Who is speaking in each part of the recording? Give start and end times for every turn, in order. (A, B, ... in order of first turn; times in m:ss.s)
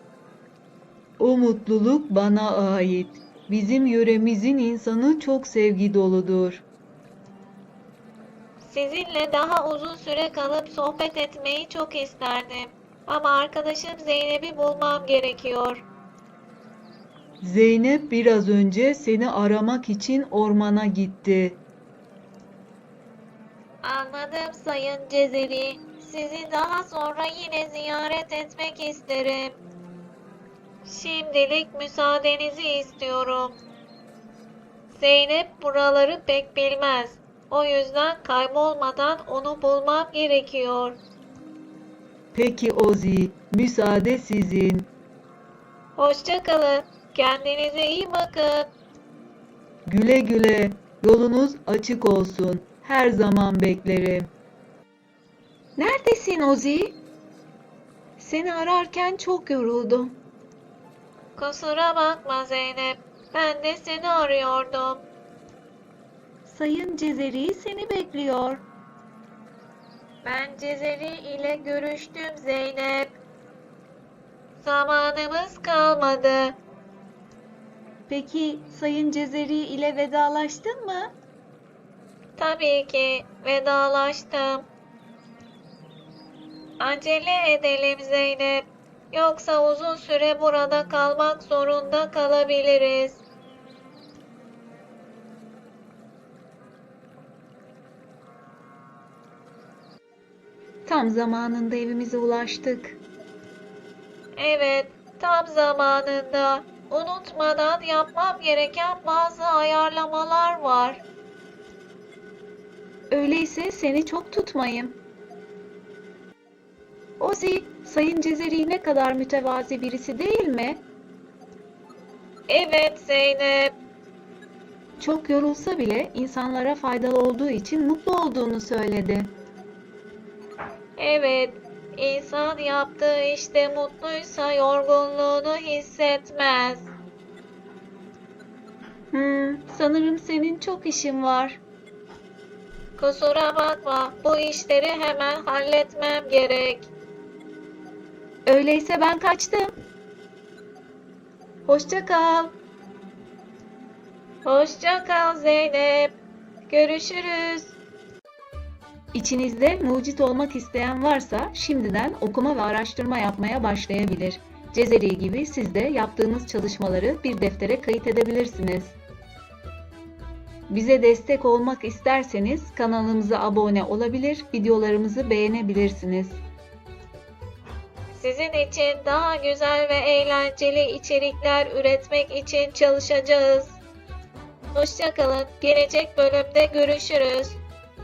0:01.2-0:06.6 A
0:08.6-0:15.8 B
0:17.4-0:21.6 A
0:23.8-0:29.6 B
0:30.8-0:33.6 B
0:34.9-0:41.0 B
0:42.3-0:44.9 A
0:46.0-0:48.7 B
0:49.9-0:54.3 A
0:55.8-0:57.0 C
0:58.2-1:00.2 C
1:01.4-1:05.0 B
1:06.4-1:08.6 C
1:10.2-1:13.2 B
1:14.6-1:16.6 B
1:18.1-1:21.1 C
1:22.4-1:24.7 B
1:26.8-1:33.2 B
1:40.8-1:43.0 C
1:44.4-1:51.0 B
1:53.1-1:55.0 C
1:57.2-2:00.8 C
2:02.5-2:03.7 B
2:05.0-2:09.3 C
2:11.0-2:16.9 B
2:19.1-2:21.6 C
2:23.0-2:26.9 B
2:28.4-2:29.7 C
2:31.6-2:32.5 C
2:34.4-2:36.1 B
2:36.7-2:37.8 B
2:39.1-2:49.0 C
2:50.7-2:56.4 C
2:58.1-3:03.8 B
3:04.7-3:07.6 B